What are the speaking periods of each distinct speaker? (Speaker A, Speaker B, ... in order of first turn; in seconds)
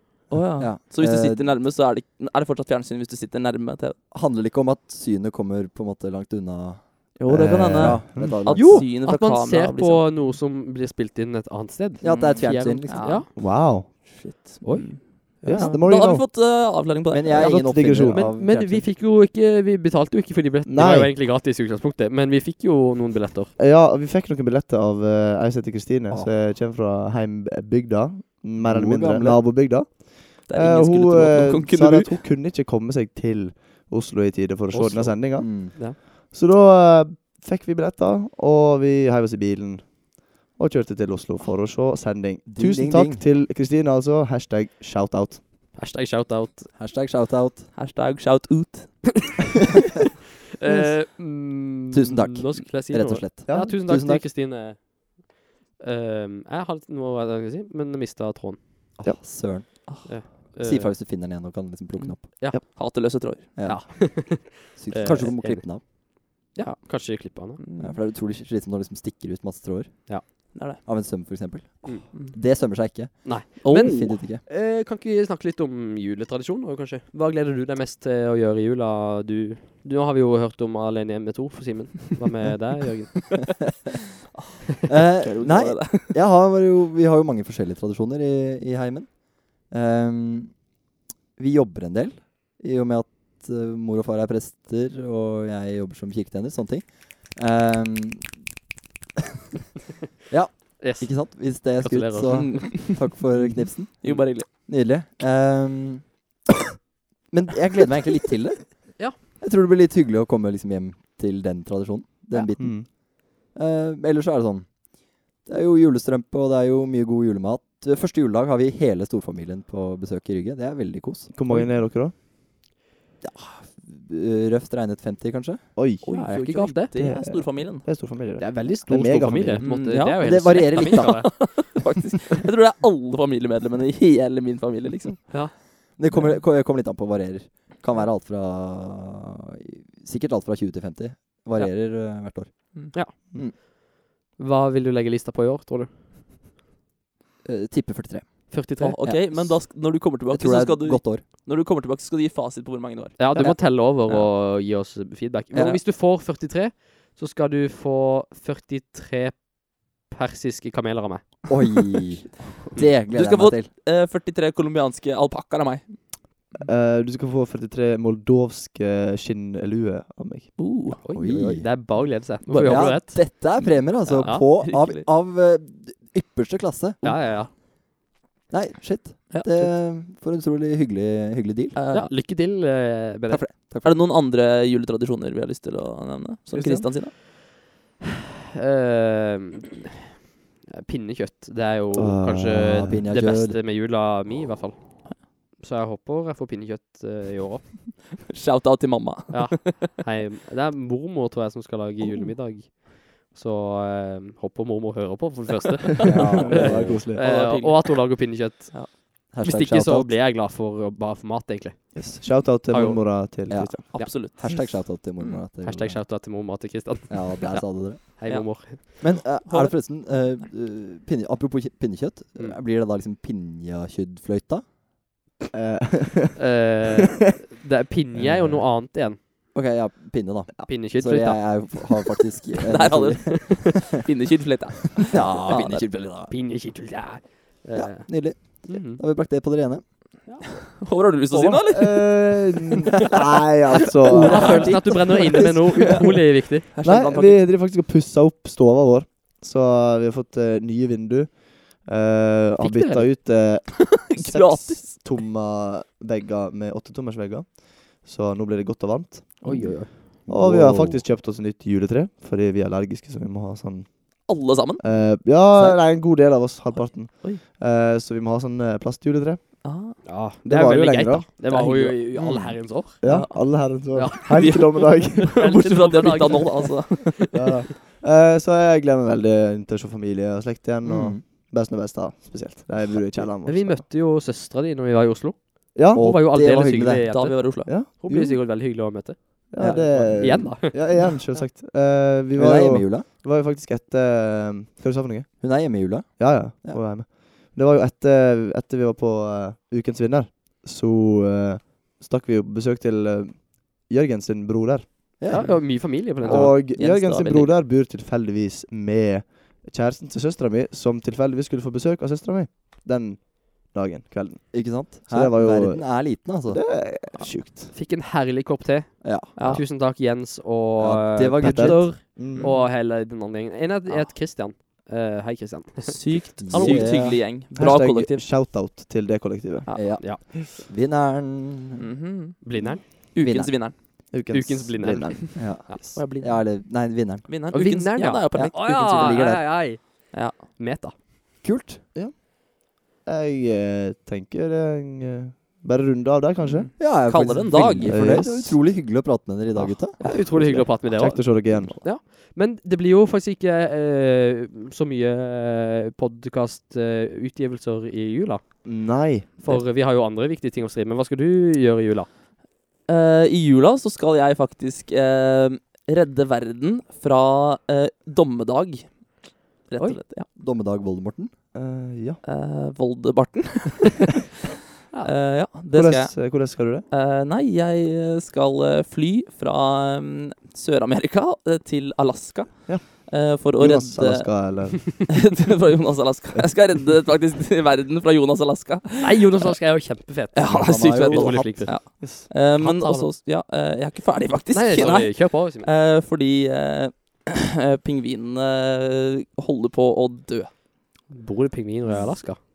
Speaker A: 0.3-4.0, 7.2-10.2, 12.0-17.6, 30.5-32.2, 47.7-49.3, 62.0-63.5, 67.6-68.0, 70.5-70.8, 84.3-86.1, 102.3-102.9, 104.0-104.5, 126.0-127.8, 129.6-135.4, 148.8-153.4, 162.9-165.9, 170.6-171.0, 172.4-172.9, 174.0-175.1, 179.3-179.7, 181.7-182.1, 183.8-187.1, 198.3-199.8, 207.1-208.9, 213.9-214.4, 218.2-220.3, 232.7-235.9, 240.7-242.5, 244.1-247.5, 253.9-255.1, 264.2-264.8, 266.7-267.4, 269.6-270.0, 271.5-272.0, 273.0-277.2, 287.1-287.7, 305.3-307.6, 319.4-319.6, 322.3-322.7, 325.8-328.2, 331.8-333.8, 335.8-336.6, 337.2-339.5, 340.1-340.6, 346.4-348.0, 362.9-370.3, 372.2-374.2, 375.0-389.6, 390.3-400.5
Speaker B: 0.6-1.5, 4.1-7.2, 7.8-8.9, 12.0-13.2, 17.1-18.9, 28.6-29.4, 35.4-35.8, 42.5-43.2, 46.7-47.7, 51.9-54.2, 59.0-62.3, 63.5-65.8, 67.8-74.4, 84.9-90.7, 91.4-98.4, 100.3-106.0, 107.3-114.9, 115.4-121.3, 123.2-125.7, 129.9-131.4, 135.9-143.5, 147.4-151.2, 153.3-154.3, 155.5-155.8, 161.5-163.7, 171.1-171.7, 172.6-177.4, 178.5-181.8, 183.3-184.0, 192.8-193.6, 206.0-207.0, 209.3-210.2, 213.5-216.1, 217.1-224.6, 229.5-233.7, 235.0-236.3, 237.7-239.8, 241.3-241.6, 244.0-245.7, 260.3-261.0, 265.5-265.8, 272.1-272.6, 280.8-281.2, 285.9-287.1, 289.6-290.1, 292.4-293.1, 295.4-296.8, 305.2-306.0, 314.5-316.8, 319.0-319.6, 320.8-321.9, 326.4-327.2, 329.7-331.8, 332.6-333.7, 335.4-337.3, 338.4-339.4, 341.4-341.9, 346.8-350.7, 370.3-371.3, 390.5-391.5
Speaker C: 7.3-8.5, 13.3-13.9, 15.4-16.3, 17.3-18.3, 20.6-21.1, 23.6-45.4, 50.7-51.1, 53.5-53.8, 112.5-112.9, 121.3-122.1, 125.8-126.0, 126.9-129.9, 166.5-170.8, 191.9-193.0, 206.4-207.3, 211.9-214.1, 225.5-226.6, 228.2-228.6, 241.7-244.8, 246.8-269.5, 270.4-271.3, 273.0-275.4, 277.1-283.8, 285.7-286.1, 287.6-288.4, 289.5-295.5, 296.1-315.9, 316.5-317.7, 321.4-322.5, 327.1-330.0, 334.1-335.2, 341.9-346.7, 347.7-348.6, 350.8-351.8, 358.6-359.6, 371.5-372.2, 375.7-376.9, 382.7-385.1, 391.3-392.3
Speaker D: 8.5-13.3, 14.6-15.8, 17.8-23.5, 34.7-35.2, 45.7-46.7, 50.6-58.6, 60.0-61.0, 62.4-62.8, 63.6-67.6, 71.8-83.7, 100.8-102.5, 126.0-126.9, 128.4-131.6, 142.9-143.7, 144.4-145.9, 148.5-149.0, 153.2-161.5, 171.0-173.3, 174.2-174.5, 177.0-177.5, 181.9-183.4, 188.5-189.8, 190.7-194.8, 195.6-197.8, 199.3-213.4, 215.6-219.1, 226.3-229.2, 230.7-232.1, 236.3-239.0, 244.2-246.6, 252.6-253.1, 259.4-260.0, 270.0-273.0, 273.9-274.2, 275.4-277.3, 283.4-291.0, 305.3-306.6, 317.7-326.9, 329.7-330.2, 332.4-332.8, 334.3-335.8, 337.5-340.9, 349.6-362.1, 389.0-393.1, 394.5-395.7, 401.1-402.4